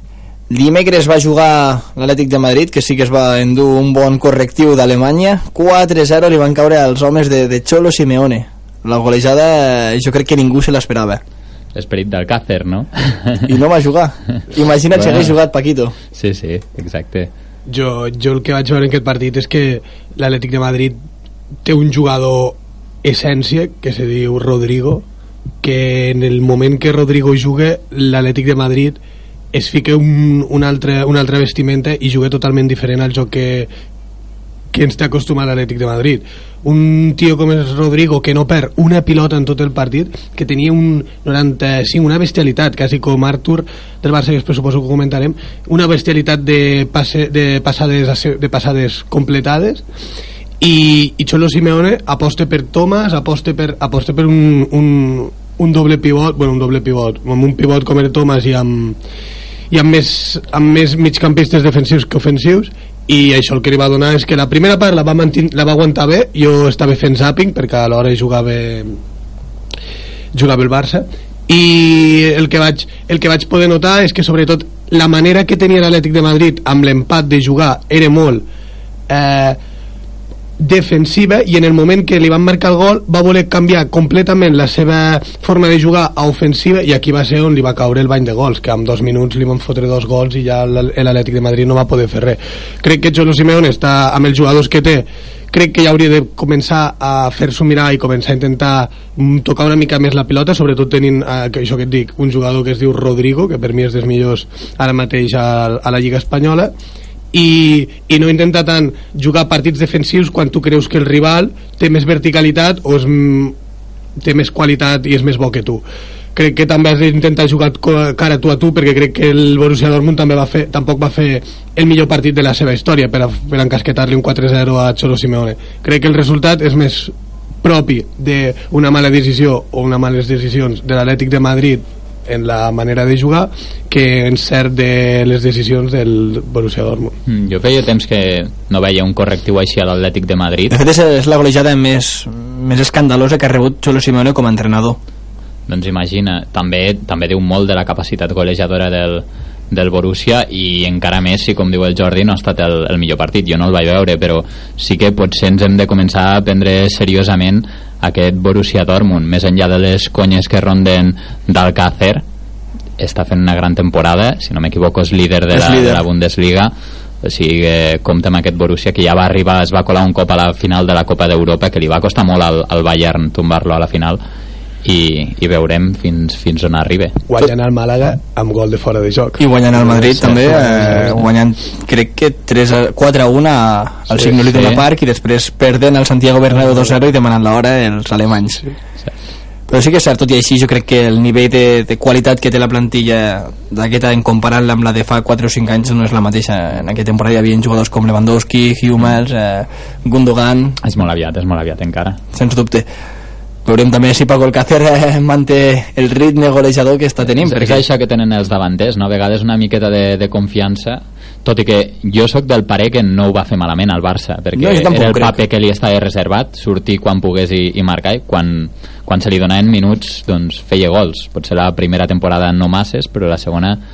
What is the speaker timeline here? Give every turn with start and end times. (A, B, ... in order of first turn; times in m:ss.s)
0:00.5-0:11.2 A
0:11.7-0:13.5 B
0:13.5-0:15.9 A
0:14.9-0:15.3 B
0:16.1-0:17.3 B
0:17.7-0:21.0 C
0:21.6-0:25.0 C
0:25.6-0:29.0 C
0:29.5-0:33.7 C
0:34.7-0:49.8 C
0:50.6-0:59.0 C
0:59.7-1:09.0 C
1:10.3-1:18.4 C
1:19.1-1:19.6 C
1:20.6-1:46.7 C
1:47.3-1:53.5 C
1:54.2-1:55.8 C
1:56.3-2:17.2 C
2:17.3-2:20.8 B
2:20.7-2:25.0 A
2:25.7-2:42.2 B
2:43.0-2:46.7 B
2:45.5-2:46.0 A
2:47.2-2:54.2 B
2:54.8-2:57.2 B
2:57.3-3:01.2 C
2:59.4-3:08.6 A
3:04.2-3:04.8 B
3:09.7-3:20.8 A
3:20.8-3:22.2 B
3:22.3-3:22.9 A
3:23.6-3:27.8 A
3:27.4-3:43.8 B
3:34.6-3:35.4 A